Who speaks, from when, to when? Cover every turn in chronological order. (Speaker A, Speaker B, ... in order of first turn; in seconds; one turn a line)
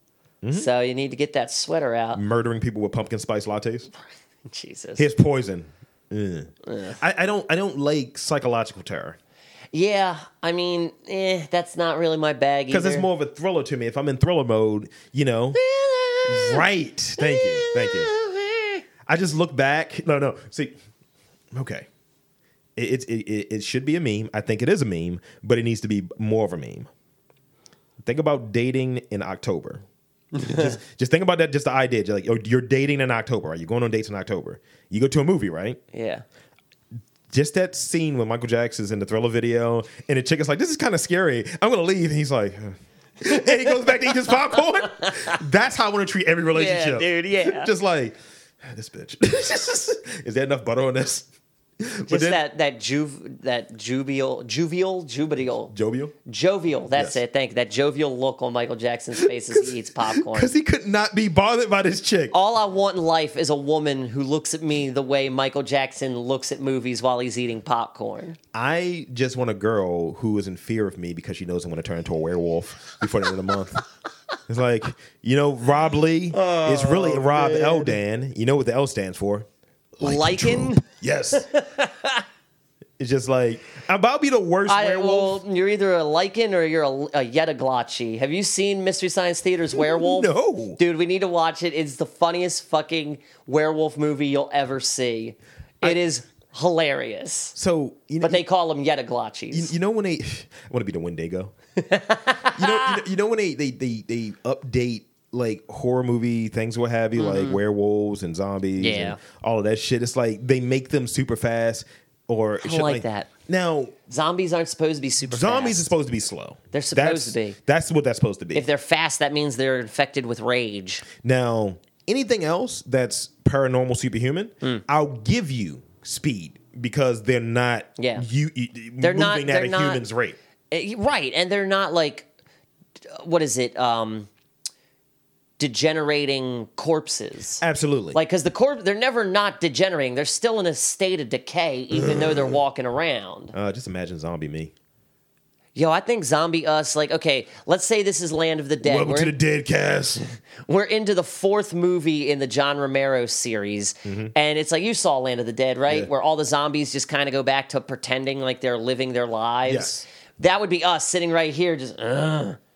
Speaker A: 0.4-0.7
Speaker B: 0.5-2.2
Speaker A: 2.1-3.9
Speaker B: 4.5-5.0
Speaker A: 5.0-9.2
Speaker B: 6.7-7.0
Speaker B: 9.7-13.1
Speaker A: 12.7-15.6
Speaker B: 15.5-16.6
Speaker A: 16.3-18.1
Speaker B: 17.2-18.8
Speaker A: 19.1-20.7
Speaker A: 21.5-21.9
Speaker A: 22.8-26.9
Speaker A: 28.0-29.8
Speaker B: 30.3-30.8
Speaker A: 30.4-35.8
Speaker B: 35.9-36.2
Speaker A: 37.3-51.3
Speaker B: 43.3-45.4
Speaker B: 46.5-47.7
Speaker A: 51.8-52.4
Speaker B: 52.1-55.7
Speaker A: 55.7-56.1
Speaker B: 56.2-60.5
Speaker A: 56.9-57.2
Speaker A: 59.2-62.3
Speaker B: 62.3-68.4
Speaker A: 68.5-73.8
Speaker A: 74.5-79.5
Speaker B: 76.3-78.0
Speaker A: 80.0-81.5
Speaker B: 80.0-82.2
Speaker A: 83.0-85.4
Speaker B: 84.7-97.5
Speaker A: 89.7-90.8
Speaker A: 97.5-98.4
Speaker B: 98.2-99.7
Speaker A: 99.5-101.5
Speaker B: 101.8-103.0
Speaker A: 102.5-113.9
Speaker B: 107.2-107.6
Speaker B: 108.8-109.2
Speaker B: 112.6-113.3
Speaker B: 114.1-115.9
Speaker A: 115.2-118.7
Speaker B: 116.7-117.6
Speaker B: 118.5-121.0
Speaker A: 121.2-130.4
Speaker B: 128.0-128.2
Speaker B: 129.0-130.0
Speaker B: 130.7-132.2
Speaker B: 133.1-134.3
Speaker B: 135.6-143.5
Speaker A: 137.6-138.2
Speaker A: 141.9-142.6
Speaker A: 143.5-144.7
Speaker B: 145.8-149.3
Speaker A: 148.8-150.2
Speaker B: 150.6-162.6
Speaker A: 154.0-154.3
Speaker A: 159.7-160.0